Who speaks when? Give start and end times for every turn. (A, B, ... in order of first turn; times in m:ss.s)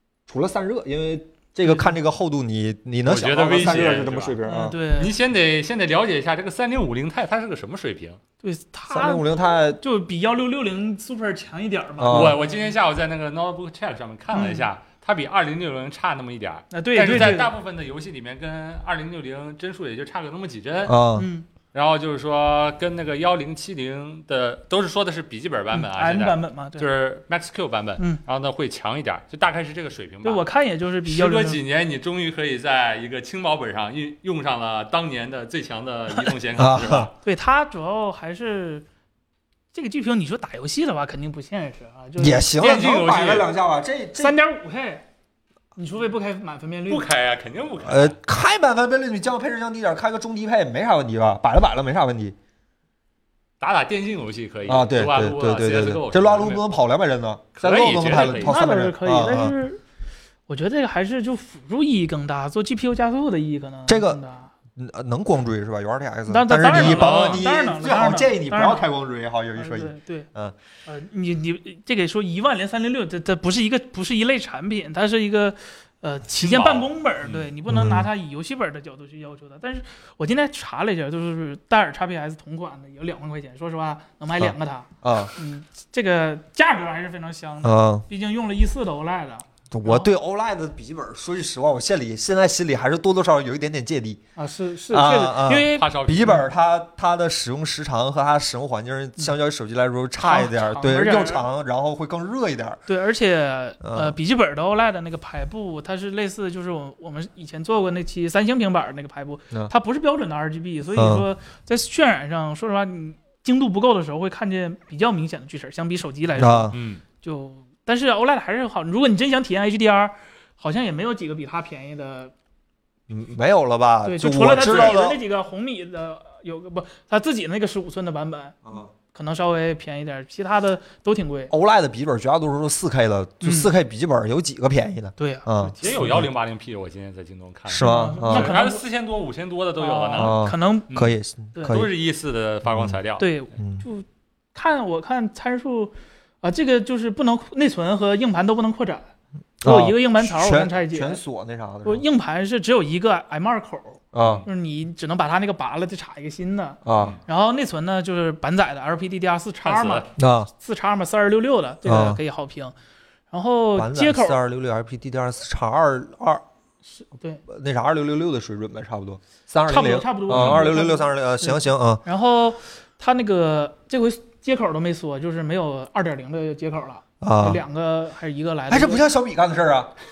0:00.3-0:04.8 A
0:01.6-0:01.9 B
0:03.0-0:04.4 C
0:04.4-0:05.1 B
0:05.0-0:08.2 C
0:08.4-0:12.7 B
0:08.9-0:09.8 A
0:12.0-0:12.4 A
0:12.1-0:21.0 C
0:14.3-0:14.7 B
0:16.7-0:17.5 B
0:20.8-0:21.3 A
0:21.2-0:21.4 B
0:21.7-0:30.4 C
0:25.7-0:26.9 B
0:30.2-0:31.6 B
0:31.0-0:37.1 C
0:36.6-0:37.1 A
0:37.2-0:38.8 B
0:39.7-0:42.5 B
0:42.2-0:44.4 A
0:42.6-0:43.5 C
0:44.2-0:45.0 B
0:45.8-0:47.1 B
0:46.9-0:48.2 C
0:47.8-0:52.4 A
0:53.6-0:56.6 C
0:54.6-0:59.5 A
0:57.6-0:58.6 C
0:58.1-0:59.8 B
1:00.5-1:04.5 B
1:03.9-1:04.2 A
1:04.8-1:10.5 A
1:06.3-1:08.8 B
1:06.7-1:07.4 C
1:09.5-1:10.3 B
1:10.8-1:30.1 B
1:16.4-1:17.4 C
1:17.7-1:18.1 A
1:24.4-1:25.3 A
1:27.6-1:28.0 A
1:29.7-1:34.2 A
1:34.4-1:36.4 B
1:34.9-1:42.8 A
1:35.7-1:36.4 C
1:40.2-1:41.4 B
1:42.9-2:02.3 B
1:43.8-1:44.1 A
1:50.9-1:51.2 A
1:56.3-1:56.8 A
1:56.7-1:57.0 C
2:03.1-2:05.2 A
2:04.0-2:11.5 B
2:04.6-2:05.0 C
2:08.6-2:08.9 A
2:11.5-2:16.2 A
2:13.4-2:13.7 B
2:15.2-2:16.0 B
2:15.8-2:20.4 C
2:17.7-2:18.6 A
2:17.8-2:18.8 B
2:19.8-2:20.9 B
2:20.2-2:21.9 A
2:21.7-2:23.3 C
2:22.7-2:23.0 A
2:23.2-2:29.1 B
2:23.6-2:23.8 A
2:29.6-2:32.0 A
2:29.6-2:31.2 B
2:31.8-2:40.1 B
2:34.1-2:34.4 A
2:34.2-2:34.4 C
2:36.8-2:37.2 A
2:39.6-2:40.1 C
2:40.2-2:40.5 A
2:40.6-2:42.7 B
2:41.8-2:42.2 A
2:43.3-2:44.4 B
2:43.8-2:46.4 A
2:46.9-2:47.4 B
2:47.5-2:52.0 A
2:49.6-2:59.1 B
2:50.3-2:50.6 C
2:57.2-2:57.6 A
2:58.7-2:59.9 A